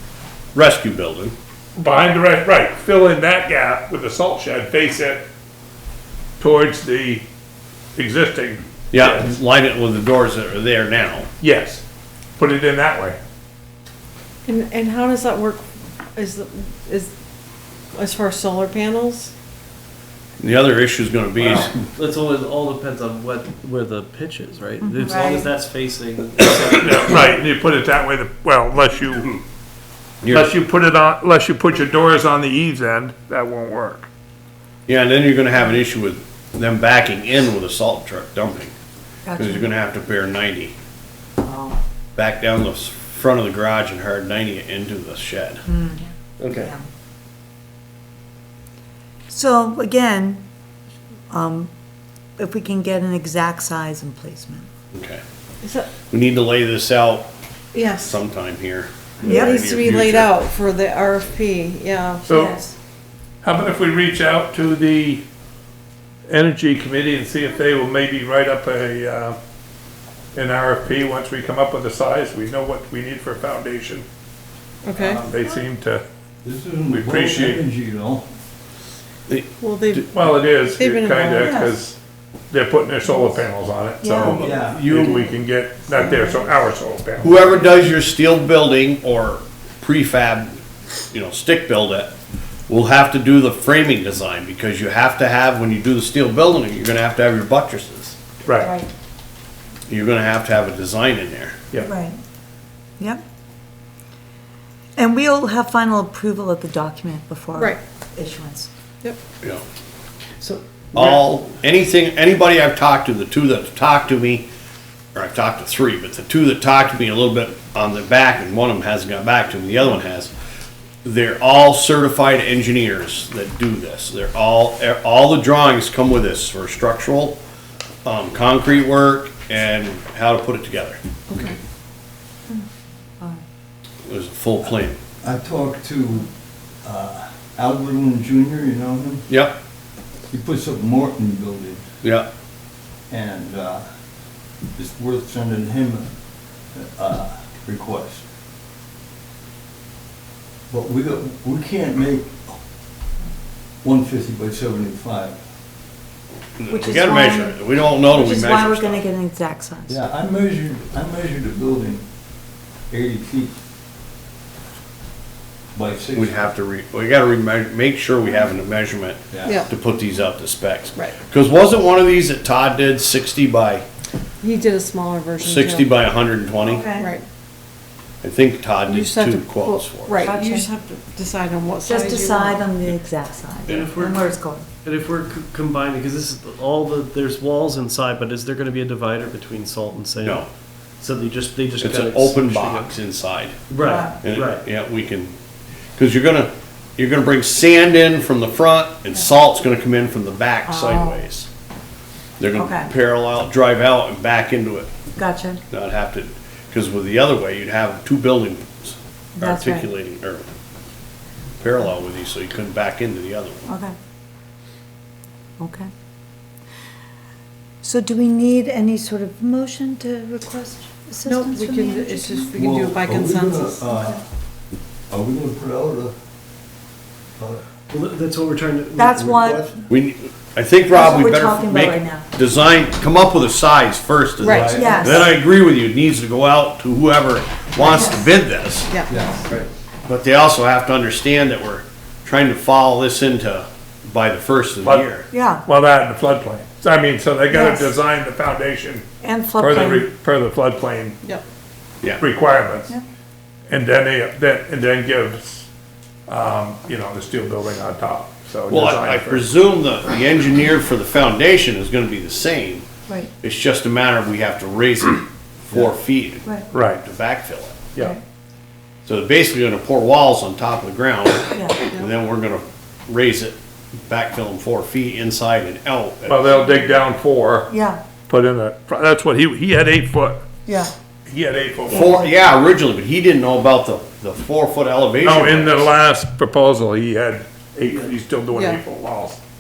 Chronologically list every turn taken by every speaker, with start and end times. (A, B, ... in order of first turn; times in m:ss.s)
0:00.5-0:01.3 A
0:01.8-0:05.3 B
0:06.4-0:07.2 B
0:08.0-0:09.4 B
0:08.9-0:11.3 A
0:11.4-0:11.8 B
0:12.4-0:13.2 B
0:14.5-0:15.6 C
0:16.2-0:17.1 C
0:17.9-0:19.3 C
0:20.4-0:21.7 A
0:21.4-0:27.4 D
0:24.8-0:25.5 E
0:26.8-0:29.4 B
0:30.2-0:30.5 A
0:30.3-0:34.1 B
0:34.9-0:38.7 A
0:39.3-0:39.7 E
0:39.4-0:40.7 A
0:41.4-0:41.8 E
0:42.2-0:45.6 A
0:45.7-0:46.9 E
0:46.4-0:46.7 D
0:49.3-0:50.4 E
0:51.3-0:51.7 E
0:52.4-0:54.7 E
0:54.9-0:55.2 A
0:55.6-0:56.0 C
0:56.1-0:57.3 A
0:57.7-0:58.2 C
0:58.0-1:00.3 A
0:59.2-0:59.6 E
0:59.3-1:02.6 C
1:02.3-1:02.6 B
1:02.3-1:02.6 E
1:03.4-1:05.2 B
1:06.3-1:09.4 B
1:10.3-1:14.0 B
1:14.8-1:15.2 C
1:15.0-1:16.0 B
1:16.4-1:18.3 F
1:16.9-1:17.6 B
1:19.3-1:20.0 A
1:19.6-1:20.1 C
1:20.1-1:22.0 B
1:20.8-1:21.4 C
1:21.1-1:21.8 E
1:22.5-1:27.6 B
1:24.0-1:24.4 E
1:24.2-1:25.3 A
1:24.2-1:24.8 F
1:25.9-1:26.4 E
1:27.2-1:30.6 A
1:31.1-1:32.1 A
1:32.7-1:38.2 A
1:38.4-1:38.7 B
1:38.6-1:38.9 E
1:39.9-1:41.6 A
1:41.8-1:42.2 E
1:45.0-1:48.7 E
1:50.4-1:51.1 D
1:50.9-1:54.5 A
1:55.1-2:00.3 A
2:01.0-2:07.4 A
2:08.0-2:11.4 A
2:11.3-2:11.6 C
2:14.1-2:15.0 A
2:15.2-2:16.3 F
2:16.8-2:19.3 F
2:19.3-2:19.6 A
2:20.3-2:21.8 F
2:23.1-2:23.8 F
2:24.8-2:26.1 F
2:26.7-2:28.2 F
2:30.7-2:32.6 F
2:33.8-2:35.4 F
2:36.6-2:39.1 A
2:36.7-2:40.0 E
2:39.9-2:42.0 F
2:42.9-2:43.5 F
2:45.7-2:46.4 F
2:46.2-2:53.8 A
2:49.3-2:49.6 F
2:49.4-2:49.7 C
2:54.4-2:55.9 C
2:55.4-2:56.9 A
2:56.6-2:57.1 E
2:57.0-2:57.2 C
2:58.2-3:00.3 A
2:58.9-3:02.6 C
3:00.2-3:00.7 E
3:01.8-3:04.7 E
3:03.7-3:04.3 D
3:04.8-3:10.5 D
3:11.0-3:13.0 D
3:11.8-3:15.3 A
3:13.7-3:14.6 D
3:13.8-3:14.2 E
3:16.0-3:21.5 A
3:20.7-3:21.2 E
3:22.4-3:24.9 A
3:22.6-3:22.9 E
3:25.2-3:25.6 E
3:25.7-3:30.5 A
3:29.4-3:29.9 E
3:31.6-3:33.7 A
3:33.7-3:34.0 E
3:35.6-3:35.9 E
3:37.8-3:42.6 E
3:41.2-3:43.8 C
3:42.6-3:44.3 F
3:43.9-3:44.2 E
3:45.1-3:46.1 F
3:47.4-3:47.6 F
3:47.9-3:49.3 D
3:49.0-3:49.7 E
3:49.2-3:49.7 F
3:49.9-3:58.9 A
3:50.9-3:52.3 E
3:54.4-3:55.2 C
3:54.4-3:55.3 F
3:54.7-3:55.3 E
3:57.8-3:58.2 E
3:58.9-3:59.2 C
3:59.1-3:59.5 F
4:00.1-4:05.3 A
4:04.8-4:05.1 B
4:05.3-4:05.6 E
4:05.7-4:09.0 B
4:07.5-4:07.9 E
4:09.2-4:10.1 E
4:09.6-4:11.2 B
4:12.2-4:12.9 B
4:13.7-4:15.7 B
4:16.3-4:19.4 B
4:18.7-4:22.8 A
4:23.4-4:27.8 A
4:26.7-4:27.0 B
4:29.1-4:36.5 A
4:31.5-4:31.8 E
4:31.8-4:32.1 C
4:36.3-4:37.7 B
4:37.7-4:38.0 E
4:38.3-4:40.4 B
4:40.6-4:40.9 E
4:41.2-4:42.1 B
4:41.9-4:45.9 A
4:41.9-4:42.3 E
4:45.2-4:49.4 B
4:48.5-4:48.8 C